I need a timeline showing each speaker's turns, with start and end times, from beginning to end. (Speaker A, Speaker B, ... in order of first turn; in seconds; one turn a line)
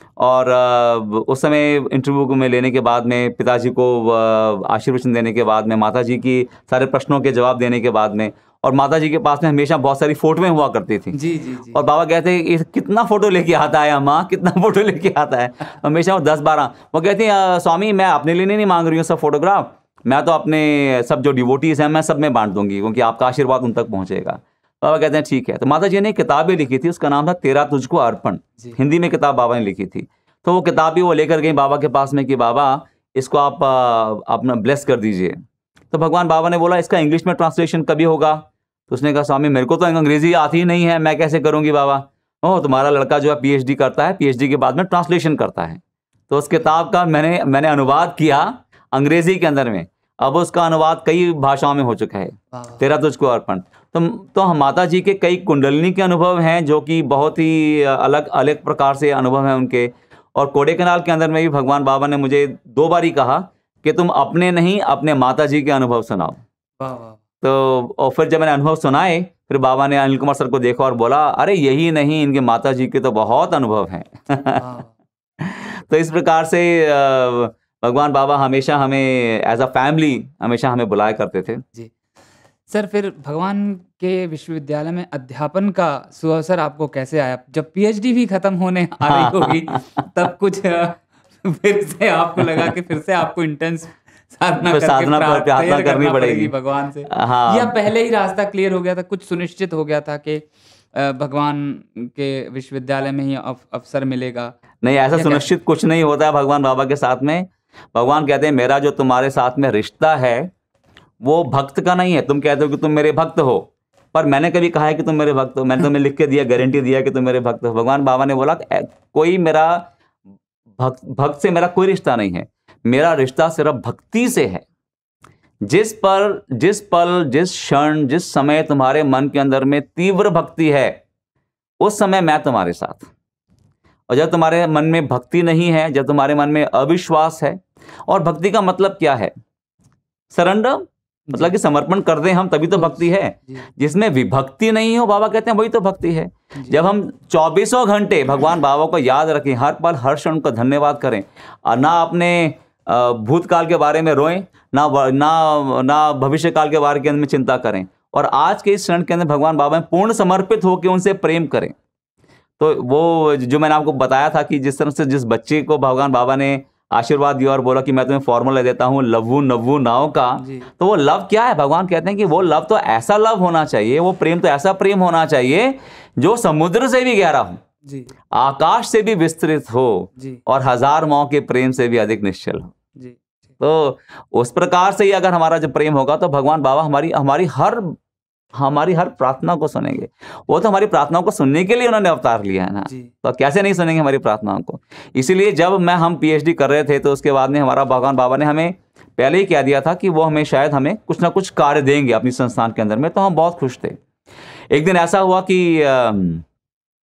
Speaker A: 0.2-11.2
Speaker B: 11.1-11.8
Speaker A: 11.7-35.4
Speaker A: 35.9-66.4
Speaker B: 52.5-52.8
Speaker B: 66.8-67.2
Speaker A: 67.4-74.6
Speaker B: 74.6-74.9
Speaker A: 75.4-81.6
Speaker B: 82.7-104.5
Speaker A: 89.1-90.1
Speaker A: 94.7-96.5
Speaker A: 97.1-97.8
Speaker A: 104.8-110.5
Speaker B: 105.1-105.5
Speaker A: 111.2-119.9
Speaker A: 120.8-124.6
Speaker A: 125.6-131.0
Speaker A: 131.8-133.1
Speaker A: 134.1-139.3
Speaker A: 140.3-161.8
Speaker B: 142.8-143.7
Speaker A: 162.6-177.6
Speaker B: 170.4-170.7
Speaker B: 177.8-178.1
Speaker A: 178.3-182.7
Speaker B: 183.0-183.3
Speaker A: 183.6-188.0
Speaker A: 188.6-204.0
Speaker A: 204.7-206.4